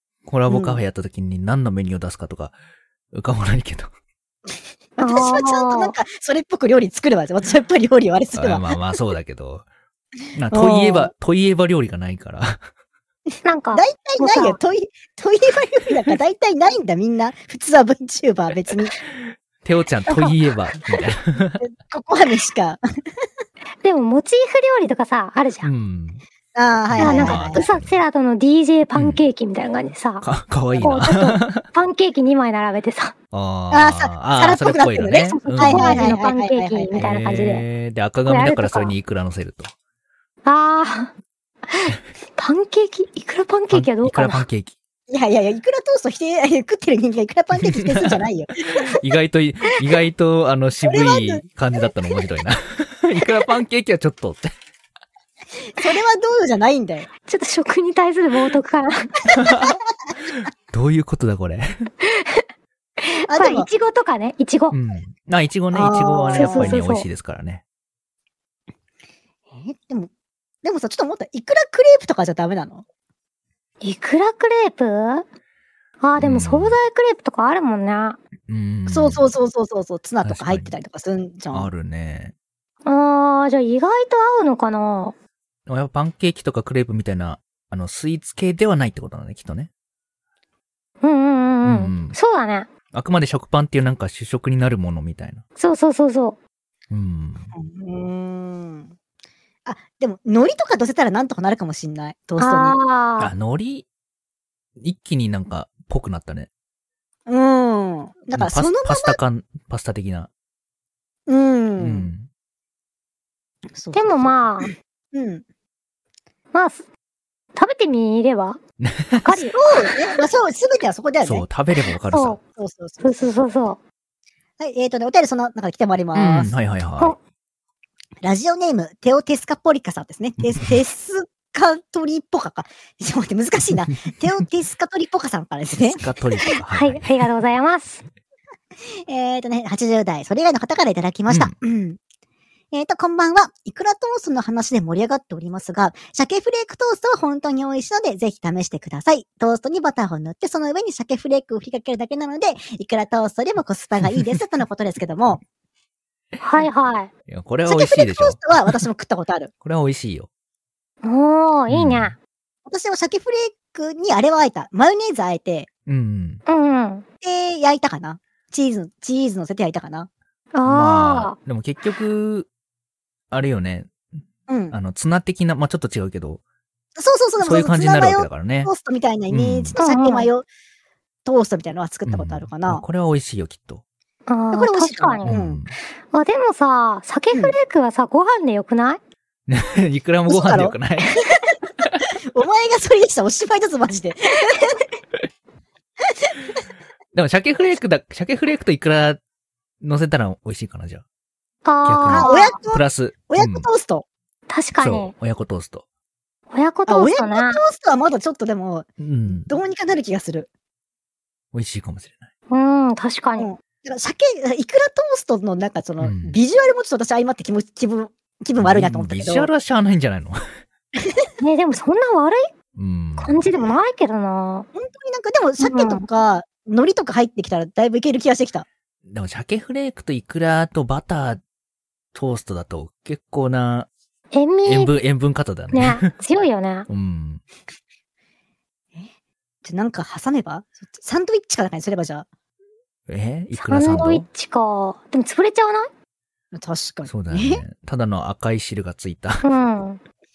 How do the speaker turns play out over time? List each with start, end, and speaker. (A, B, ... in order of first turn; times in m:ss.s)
0:00.2-0:02.5 A
0:00.5-0:00.8 B
0:03.1-0:03.9 A
0:05.0-0:08.8 B
0:05.0-0:05.9 C
0:08.3-0:09.6 A
0:10.3-0:12.6 A
0:10.5-0:11.1 B
0:13.4-0:14.6 C
0:13.7-0:18.9 B
0:19.6-0:21.6 A
0:21.6-0:22.8 B
0:23.8-0:25.7 C
0:25.6-0:26.2 A
0:26.5-0:27.6 B
0:26.9-0:28.0 A
0:27.0-0:30.3 C
0:28.9-0:29.2 A
0:30.2-0:31.6 A
0:30.8-0:33.1 C
0:33.3-0:36.2 A
0:33.7-0:37.1 B
0:35.3-0:37.6 C
0:37.0-0:39.7 A
0:38.3-0:38.9 C
0:40.4-0:41.1 C
0:41.6-0:44.4 C
0:43.7-0:44.7 A
0:45.1-0:49.0 B
0:47.6-0:48.2 A
0:48.9-0:54.5 A
0:50.8-0:51.4 B
0:55.7-0:57.1 B
0:57.3-0:59.3 C
0:59.3-0:59.8 A
1:00.7-1:01.9 A
1:02.0-1:02.4 C
1:03.0-1:04.7 C
1:03.3-1:03.7 B
1:04.7-1:07.6 A
1:05.7-1:06.7 B
1:06.4-1:07.0 C
1:09.5-1:10.1 B
1:10.6-1:12.8 B
1:13.8-1:15.2 C
1:16.0-1:18.2 C
1:16.2-1:16.8 A
1:18.5-1:19.3 A
1:18.9-1:21.7 B
1:20.2-1:20.7 A
1:21.5-1:22.3 A
1:22.8-1:25.1 C
1:25.7-1:29.7 A
1:31.0-1:32.7 C
1:31.6-1:32.2 A
1:32.9-1:35.4 A
1:35.6-1:36.4 C
1:36.9-1:37.5 A
1:37.5-1:38.9 B
1:39.6-1:42.8 B
1:42.4-1:43.3 C
1:43.2-1:43.8 A
1:44.8-1:46.5 A
1:47.2-1:49.2 B
1:48.3-1:50.3 A
1:51.3-1:52.1 B
1:51.8-1:52.3 A
1:53.7-1:55.4 B
1:53.9-1:54.7 C
1:56.5-1:56.8 C
1:57.5-1:58.6 C
1:58.8-1:59.4 A
1:59.1-1:59.9 C
1:59.5-2:01.4 B
2:01.2-2:02.4 A
2:02.1-2:02.4 C
2:02.6-2:03.4 B
2:03.0-2:03.8 C
2:04.6-2:06.5 B
2:06.1-2:07.2 A
2:08.2-2:16.0 B
2:15.9-2:17.2 A
2:16.6-2:18.0 C
2:19.1-2:22.0 B
2:21.3-2:21.5 A
2:22.7-2:35.4 B
2:36.4-2:37.1 C
2:37.3-2:38.4 A
2:37.6-2:39.5 B
2:39.6-2:40.3 A
2:41.0-2:42.1 C
2:41.7-2:42.2 A
2:42.6-2:45.7 B
2:45.9-2:46.4 A
2:46.5-2:47.0 C
2:47.2-2:50.1 B
2:50.5-2:51.4 C
2:50.6-2:52.5 A
2:53.3-2:54.0 A
2:54.5-2:54.7 B
2:54.7-2:56.4 A
2:57.0-3:00.4 B
2:57.4-2:58.7 A
2:59.3-2:59.8 A
2:59.8-3:00.3 C
3:01.2-3:02.8 B
3:02.0-3:03.8 A
3:04.3-3:05.3 C
3:04.5-3:05.6 B
3:05.2-3:05.7 A
3:06.1-3:09.0 C
3:09.5-3:11.2 A
3:10.3-3:10.8 B
3:12.3-3:14.8 B
3:16.0-3:16.3 B
3:17.1-3:19.2 A
3:19.8-3:21.0 A
3:21.6-3:22.6 C
3:21.8-3:23.7 A
3:22.1-3:24.0 B
3:24.5-3:25.1 C
3:24.8-3:25.8 A
3:26.5-3:27.6 C
3:26.9-3:30.5 B
3:29.0-3:29.5 A
3:31.5-3:32.3 A
3:32.5-3:33.5 C
3:33.4-3:39.5 B
3:36.0-3:36.4 A
3:38.6-3:40.4 A
3:41.4-3:42.5 C
3:42.8-3:43.4 A
3:43.2-3:44.7 C
3:44.8-3:48.7 B
3:45.6-3:46.0 C
3:49.1-3:51.4 A
3:52.1-3:53.9 A
3:54.3-3:54.9 C
3:54.6-3:56.1 A
3:55.7-3:56.9 C
3:56.9-3:57.4 A
3:59.6-4:02.3 B
4:03.1-4:04.2 A
4:03.6-4:05.9 C
4:06.5-4:07.6 B
4:07.0-4:09.4 A
4:09.4-4:10.0 C